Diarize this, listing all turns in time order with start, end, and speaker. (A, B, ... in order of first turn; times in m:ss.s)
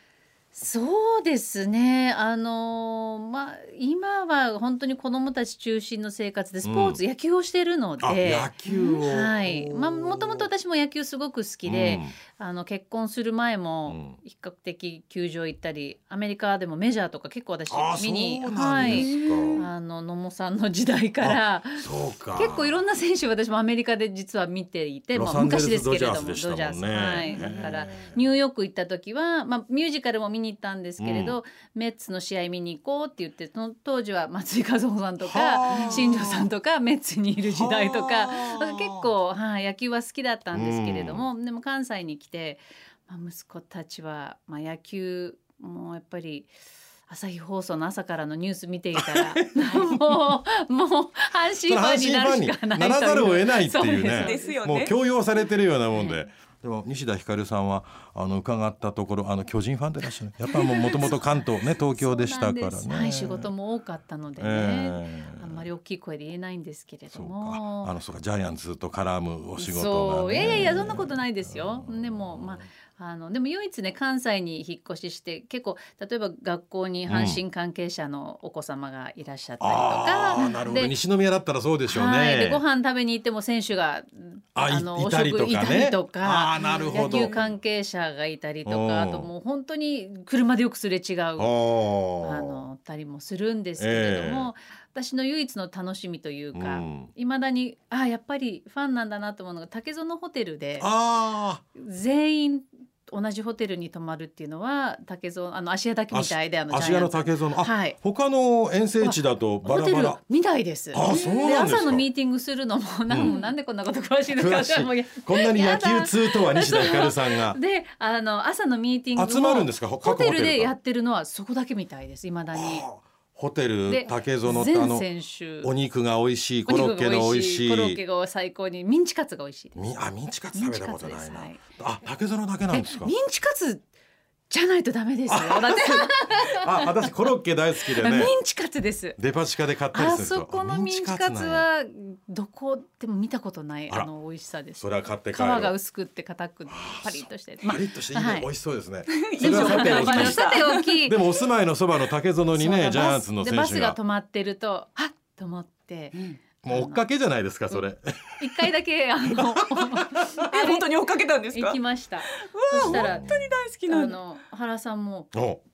0:00.5-0:46.5 A
0:06.6-0:07.0 B
0:08.0-0:10.5 B
0:08.7-0:09.0 C
0:11.6-0:12.2 B
0:13.9-0:14.2 B
0:17.7-0:19.7 B
0:18.8-0:19.6 C
0:21.2-0:22.8 B
0:25.1-0:28.2 B
0:27.1-0:27.7 C
0:31.0-0:31.4 B
0:35.2-0:36.5 B
0:35.7-0:36.0 C
0:37.4-0:39.1 B
0:40.5-0:41.2 B
0:47.1-0:54.6 A
0:49.0-0:50.3 B
0:51.6-1:03.5 B
0:54.2-0:54.9 C
0:55.9-0:56.2 A
1:00.5-1:08.0 A
1:04.4-1:05.7 B
1:07.1-1:12.7 B
1:09.6-1:21.0 A
1:17.1-1:17.4 B
1:19.6-1:22.6 B
1:21.9-1:31.6 A
1:24.6-1:27.4 B
1:26.6-1:27.3 C
1:28.7-1:29.3 B
1:31.4-1:32.7 B
1:32.2-1:40.9 A
1:33.8-1:34.5 B
1:36.5-1:37.1 B
1:40.8-1:41.6 B
1:41.8-1:48.0 A
1:46.1-1:50.2 B
1:49.0-2:02.9 A
1:50.9-1:52.1 B
1:51.1-1:51.4 C
1:53.1-1:53.4 B
1:53.2-1:53.5 C
1:54.3-1:57.6 B
1:59.2-2:00.7 B
2:02.5-2:05.1 B
2:03.9-2:05.7 A
2:05.6-2:08.0 B
2:06.6-2:09.8 A
2:09.8-2:13.2 B
2:10.5-2:11.6 A
2:12.7-2:13.8 A
2:14.5-2:17.3 A
2:15.3-2:18.4 B
2:17.9-2:19.2 A
2:19.2-2:21.7 B
2:19.9-2:28.5 A
2:24.8-2:25.7 B
2:26.7-2:34.0 B
2:29.1-2:30.8 C
2:29.4-2:31.2 A
2:32.5-2:37.0 A
2:36.6-2:38.7 B
2:38.4-2:40.9 A
2:39.4-2:40.3 B
2:40.4-2:44.2 C
2:41.5-2:43.3 A
2:42.8-2:43.6 B
2:43.9-2:45.3 A
2:45.3-2:45.6 B